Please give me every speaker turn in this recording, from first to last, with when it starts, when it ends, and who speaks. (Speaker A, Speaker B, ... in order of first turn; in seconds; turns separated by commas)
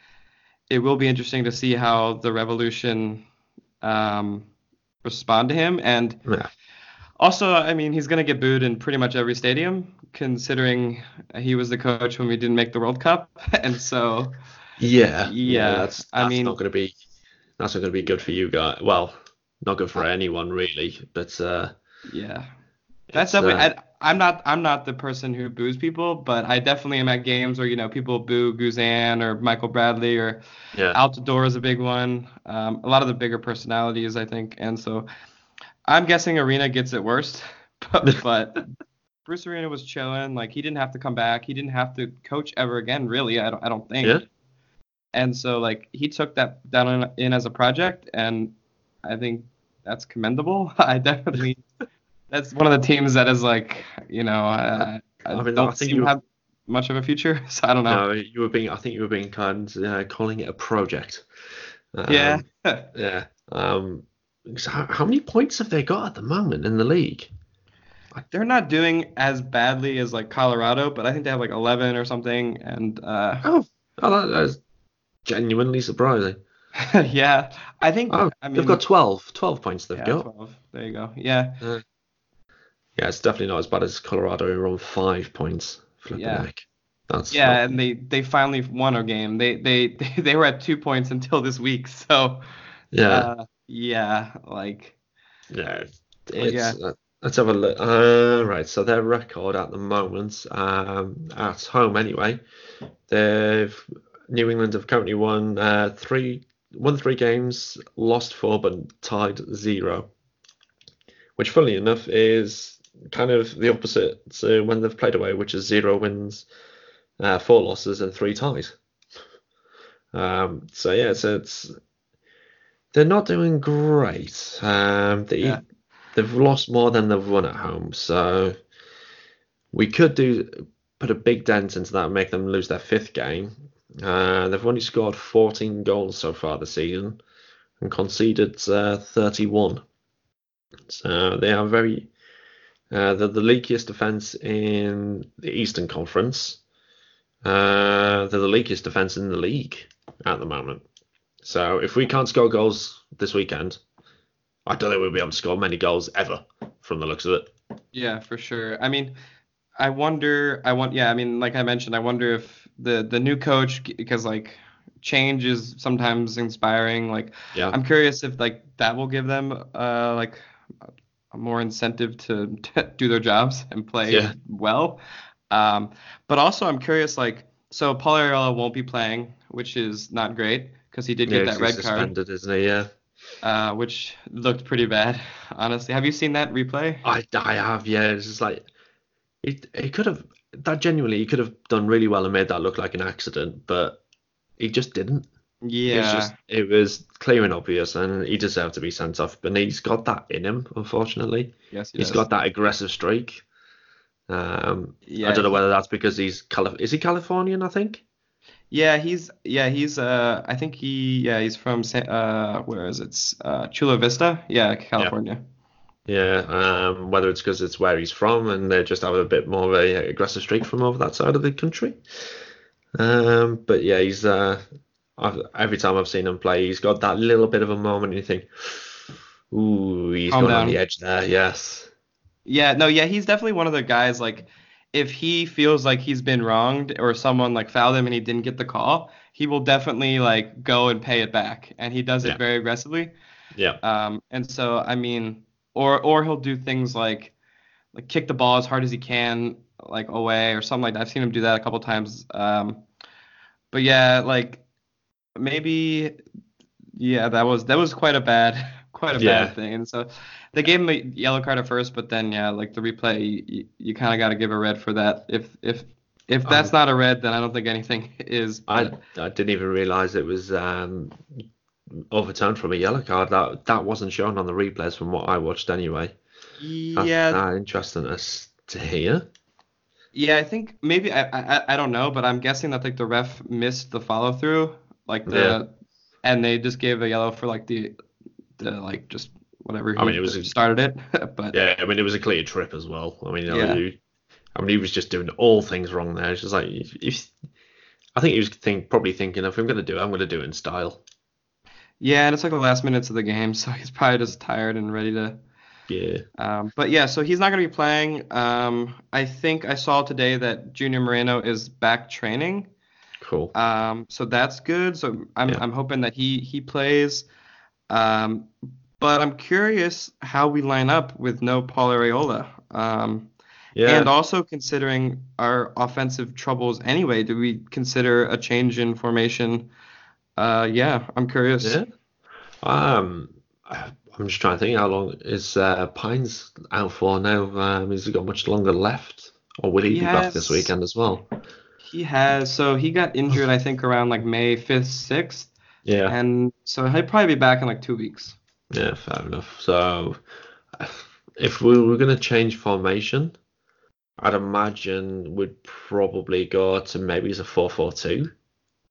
Speaker A: 0.7-3.2, Speaker A: 3.8-4.5, Speaker A: 5.0-6.2, Speaker A: 7.2-14.3, Speaker B: 14.8-16.9, Speaker A: 15.2-16.6, Speaker B: 17.6-21.7, Speaker A: 22.1-22.5, Speaker B: 23.1-23.7, Speaker A: 23.1-35.1, Speaker A: 35.9-38.7, Speaker A: 39.3-44.2, Speaker A: 45.1-51.7, Speaker A: 52.3-58.0, Speaker B: 55.3-56.1, Speaker B: 57.9-61.2, Speaker B: 61.9-67.3, Speaker A: 62.1-62.9, Speaker A: 68.2-73.5, Speaker B: 73.4-74.6, Speaker B: 75.2-76.4, Speaker A: 76.8-78.8, Speaker B: 78.1-80.3, Speaker A: 79.9-81.6, Speaker B: 83.0-87.7, Speaker A: 86.1-86.5, Speaker A: 87.3-92.4, Speaker B: 92.9-93.3, Speaker A: 93.0-94.9, Speaker B: 95.5-102.4, Speaker A: 96.4-96.8, Speaker B: 103.1-110.1, Speaker B: 111.4-116.5, Speaker B: 117.2-118.8, Speaker B: 120.1-121.7, Speaker B: 122.9-125.6, Speaker B: 126.1-128.5, Speaker B: 129.7-137.2, Speaker B: 137.8-139.8, Speaker B: 140.9-142.1, Speaker B: 142.9-146.6, Speaker B: 147.4-150.8, Speaker B: 151.4-153.8, Speaker B: 154.7-157.5, Speaker A: 157.9-159.1, Speaker A: 159.8-170.4, Speaker A: 171.3-182.1, Speaker B: 174.1-174.3, Speaker B: 181.2-182.9, Speaker A: 183.4-187.0, Speaker B: 187.0-188.6, Speaker B: 189.4-194.0, Speaker B: 194.6-195.3, Speaker A: 195.6-196.3, Speaker B: 195.9-203.4, Speaker A: 201.7-202.2, Speaker B: 204.3-208.0, Speaker A: 205.1-205.5, Speaker A: 208.7-215.4, Speaker B: 216.1-222.0, Speaker B: 222.9-224.6, Speaker B: 225.2-231.9, Speaker A: 230.3-230.8, Speaker A: 232.4-243.1, Speaker A: 243.8-247.3, Speaker A: 247.9-252.8, Speaker A: 253.7-254.6, Speaker A: 255.3-256.1, Speaker A: 257.0-269.0, Speaker B: 259.1-259.5, Speaker B: 266.4-266.7, Speaker B: 268.7-271.2, Speaker B: 272.1-276.1, Speaker A: 276.6-277.4, Speaker B: 276.9-279.3, Speaker A: 280.1-285.7, Speaker B: 285.3-285.6, Speaker A: 286.2-287.9, Speaker A: 288.6-291.6, Speaker B: 290.0-290.5, Speaker B: 291.5-294.0, Speaker A: 293.5-293.8, Speaker B: 294.6-297.3, Speaker B: 298.1-301.0, Speaker A: 302.0-305.4, Speaker B: 305.9-306.2, Speaker A: 306.4-312.7, Speaker B: 313.2-313.5, Speaker A: 313.5-317.2, Speaker A: 317.9-323.3, Speaker B: 323.7-324.1, Speaker A: 323.8-329.7, Speaker A: 330.4-331.8, Speaker B: 332.6-341.3, Speaker A: 339.9-340.7, Speaker A: 341.9-345.5, Speaker B: 345.9-346.1, Speaker A: 346.1-348.4, Speaker B: 348.7-350.2, Speaker B: 350.8-353.4, Speaker B: 354.2-358.3